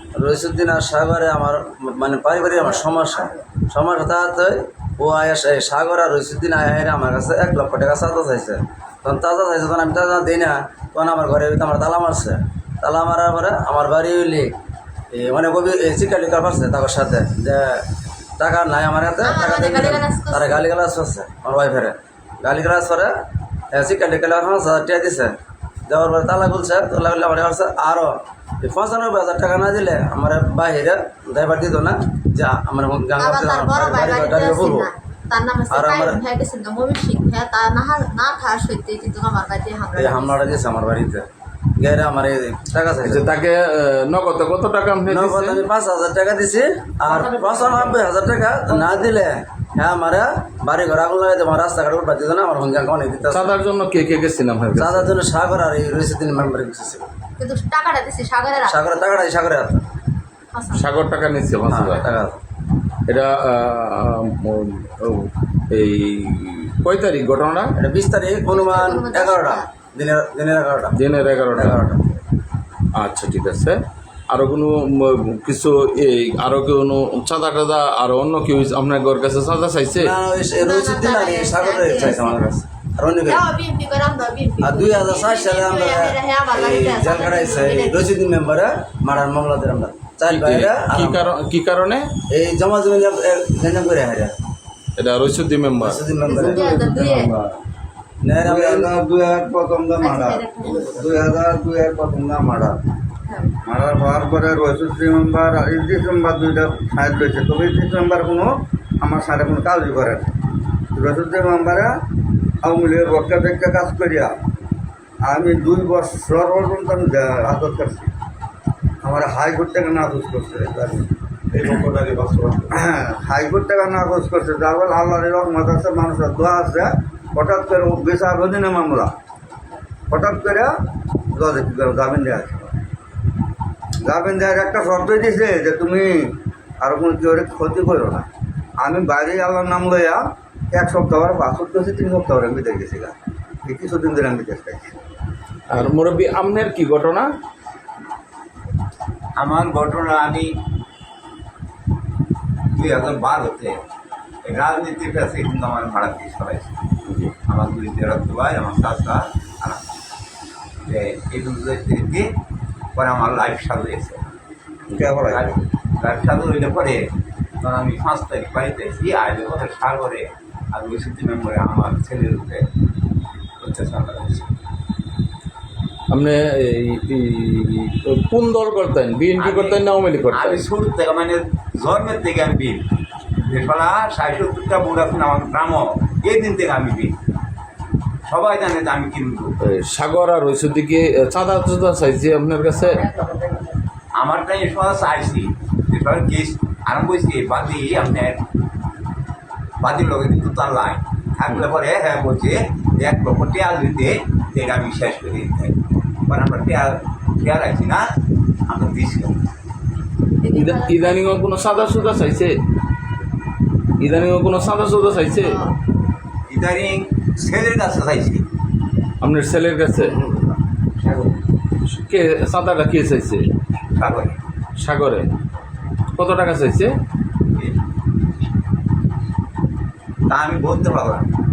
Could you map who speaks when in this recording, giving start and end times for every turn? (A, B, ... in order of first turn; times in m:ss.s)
0:00.2-0:14.5 A
0:15.1-0:17.8 A
0:18.4-0:23.1 A
0:19.2-0:20.6 B
0:23.7-0:25.3 A
0:25.9-0:34.9 A
0:33.2-0:40.6 B
0:35.7-0:36.2 A
0:39.9-0:41.2 A
0:41.8-0:43.3 A
0:43.0-0:45.6 C
0:45.0-0:53.6 A
0:47.1-0:48.0 B
0:53.3-0:55.1 C
0:54.8-0:57.1 A
0:57.4-0:59.0 B
0:58.6-0:59.8 A
1:00.5-1:00.8 B
1:00.7-1:02.1 C
1:01.7-1:02.4 A
1:03.1-1:07.7 C
1:07.8-1:11.0 A
1:08.5-1:09.7 B
1:11.0-1:11.8 C
1:11.5-1:12.1 A
1:12.9-1:20.1 C
1:20.0-1:23.4 A
1:20.6-1:22.4 B
1:23.2-1:28.1 B
1:24.6-1:31.3 A
1:30.3-1:32.1 C
1:32.3-1:34.3 A
1:35.0-1:36.0 C
1:35.8-1:36.7 A
1:36.2-1:37.3 B
1:36.2-1:37.6 D
1:38.2-1:38.9 A
1:38.4-1:42.8 D
1:40.0-1:41.1 B
1:43.3-1:43.5 B
1:43.6-1:50.3 D
1:50.9-1:51.9 D
1:52.6-1:54.3 D
1:55.2-1:58.1 D
1:59.0-2:01.1 D
2:01.7-2:02.6 C
2:02.7-2:09.1 D
2:10.1-2:10.7 D
2:11.3-2:12.7 D
2:14.0-2:18.2 D
2:18.8-2:25.0 D
2:25.7-2:27.3 C
2:29.4-2:30.5 E
2:32.7-2:33.8 E
2:34.4-2:36.7 E
2:37.1-2:37.3 C
2:37.5-2:39.8 E
2:40.8-2:42.3 E
2:42.9-2:44.2 E
2:44.9-2:45.6 D
2:45.3-2:47.1 E
2:47.6-2:52.6 E
2:53.6-2:54.5 E
2:56.1-3:00.6 C
2:59.4-2:59.8 E
3:00.3-3:02.9 E
3:03.4-3:07.1 E
3:08.3-3:09.5 E
3:09.6-3:13.0 C
3:13.0-3:13.7 B
3:14.2-3:18.4 E
3:19.8-3:28.0 E
3:28.7-3:29.4 E
3:30.4-3:31.3 B
3:30.5-3:32.6 C
3:34.0-3:35.6 C
3:35.2-3:35.8 B
3:36.5-3:38.4 E
3:39.2-3:40.2 C
3:41.0-3:41.3 E
3:41.9-3:43.4 C
3:44.0-3:44.4 E
3:44.8-3:45.3 C
3:46.2-3:46.9 C
3:50.3-3:51.3 E